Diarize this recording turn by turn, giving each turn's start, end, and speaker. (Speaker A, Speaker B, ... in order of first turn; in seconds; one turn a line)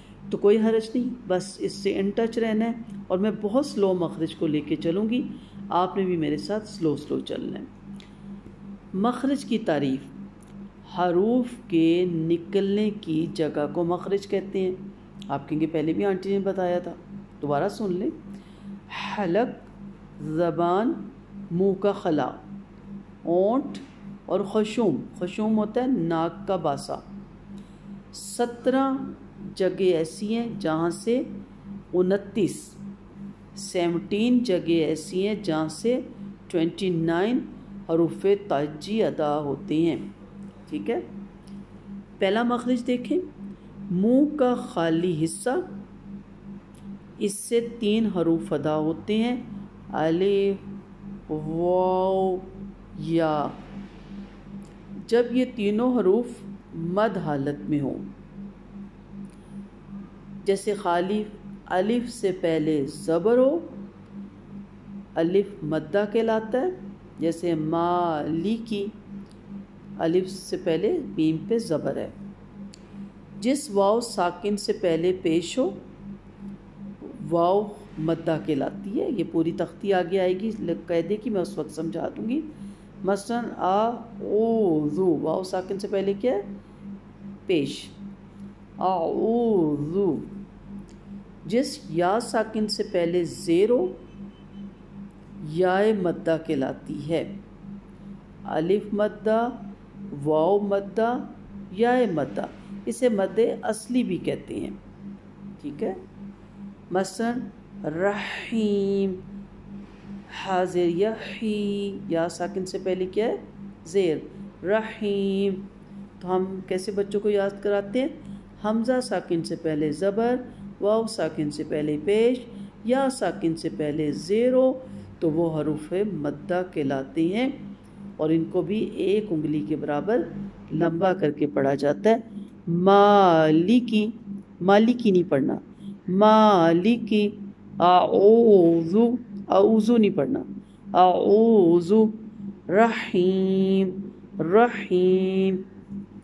Speaker A: 0.3-7.7
Speaker A: 8.9-10.1
Speaker A: 10.9-18.1
Speaker A: 18.9-22.4
Speaker A: 23.2-27.0
Speaker A: 28.1-31.3
Speaker A: 31.9-32.8
Speaker A: 33.5-40.1
Speaker A: 40.7-41.0
Speaker A: 42.2-43.2
Speaker A: 43.9-45.8
Speaker A: 47.2-50.6
Speaker A: 51.3-53.6
Speaker A: 55.1-58.1
Speaker A: 60.4-63.8
Speaker A: 65.2-68.9
Speaker A: 70.0-72.1
Speaker A: 73.4-75.8
Speaker A: 77.0-82.5
Speaker A: 83.0-86.5
Speaker A: 87.5-88.0
Speaker A: 88.8-90.3
Speaker A: 91.4-94.0
Speaker A: 95.4-97.3
Speaker A: 98.5-104.8
Speaker A: 105.6-106.0
Speaker A: 106.9-109.2
Speaker A: 110.3-115.7
Speaker A: 116.2-127.6
Speaker A: 128.2-145.7